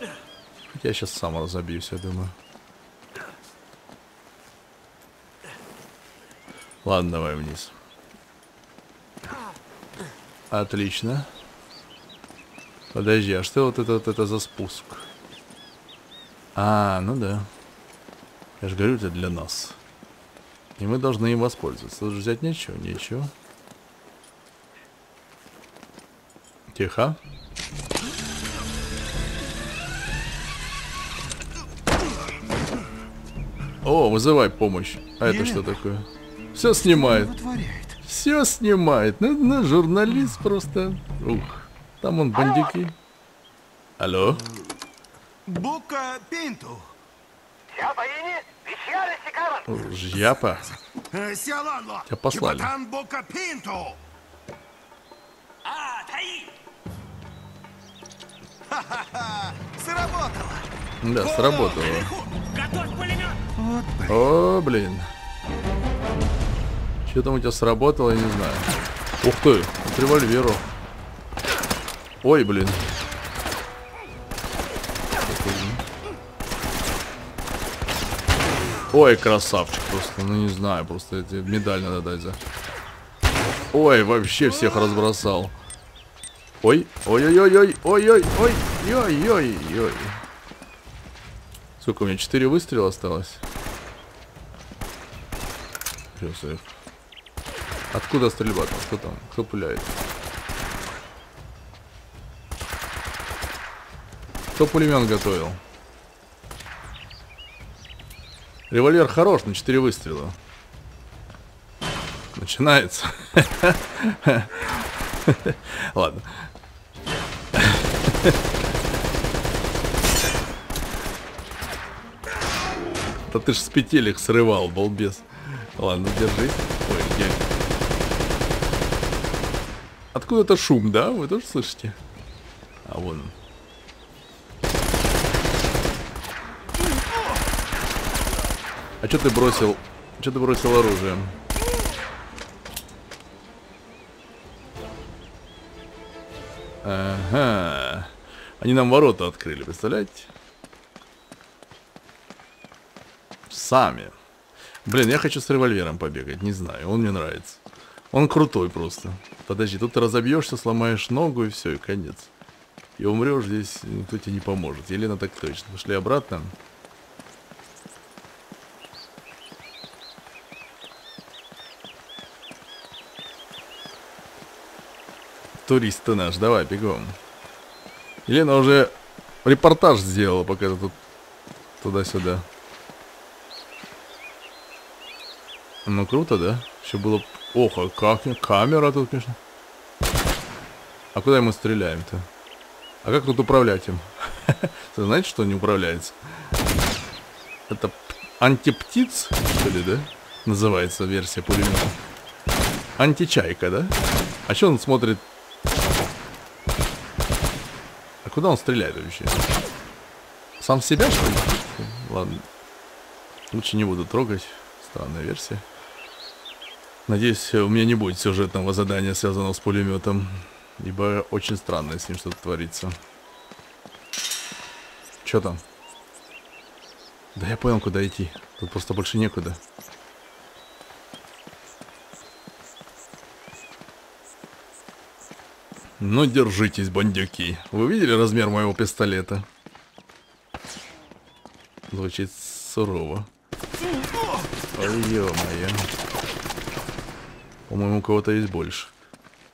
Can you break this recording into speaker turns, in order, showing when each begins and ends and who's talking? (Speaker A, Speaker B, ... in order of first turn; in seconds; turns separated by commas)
Speaker A: 0.7-2.4, Speaker A: 6.8-7.7, Speaker A: 10.5-11.3, Speaker A: 12.9-15.1, Speaker A: 16.5-17.5, Speaker A: 18.6-19.8, Speaker A: 20.8-23.3, Speaker A: 26.7-27.2, Speaker A: 33.8-37.3, Speaker B: 35.2-35.7, Speaker B: 37.0-38.0, Speaker A: 38.0-43.0, Speaker A: 44.0-44.4, Speaker B: 44.3-44.7, Speaker B: 45.5-46.9, Speaker A: 49.6-50.7, Speaker B: 50.9-54.0, Speaker A: 52.1-52.7, Speaker C: 55.6-56.5, Speaker B: 58.7-62.1, Speaker A: 61.0-62.1, Speaker C: 62.0-63.4, Speaker B: 63.5-64.3, Speaker A: 64.1-65.1, Speaker A: 67.0-70.6, Speaker A: 72.2-72.9, Speaker A: 75.2-75.8, Speaker A: 78.9-82.4, Speaker A: 83.7-85.5, Speaker A: 86.6-90.2, Speaker A: 91.8-93.4, Speaker A: 96.1-96.7, Speaker A: 97.9-100.0, Speaker A: 104.5-105.6, Speaker A: 108.7-110.4, Speaker A: 112.3-116.5, Speaker A: 117.5-118.4, Speaker A: 123.3-127.4, Speaker A: 130.1-132.0, Speaker A: 132.8-133.3, Speaker A: 139.0-141.4, Speaker A: 146.8-150.3, Speaker A: 153.5-154.1, Speaker A: 154.8-162.3, Speaker A: 163.0-166.5, Speaker A: 175.6-177.2, Speaker A: 178.2-180.9, Speaker A: 181.8-182.5, Speaker A: 185.8-189.4, Speaker A: 191.1-192.3, Speaker A: 193.0-196.2, Speaker A: 197.7-201.9, Speaker A: 203.0-205.2, Speaker A: 208.2-209.5, Speaker A: 210.6-212.4, Speaker A: 213.5-215.6, Speaker A: 217.1-223.0, Speaker A: 225.2-225.6, Speaker A: 227.3-229.6, Speaker A: 236.0-239.5, Speaker A: 241.9-243.3, Speaker A: 244.7-245.9, Speaker A: 247.7-248.9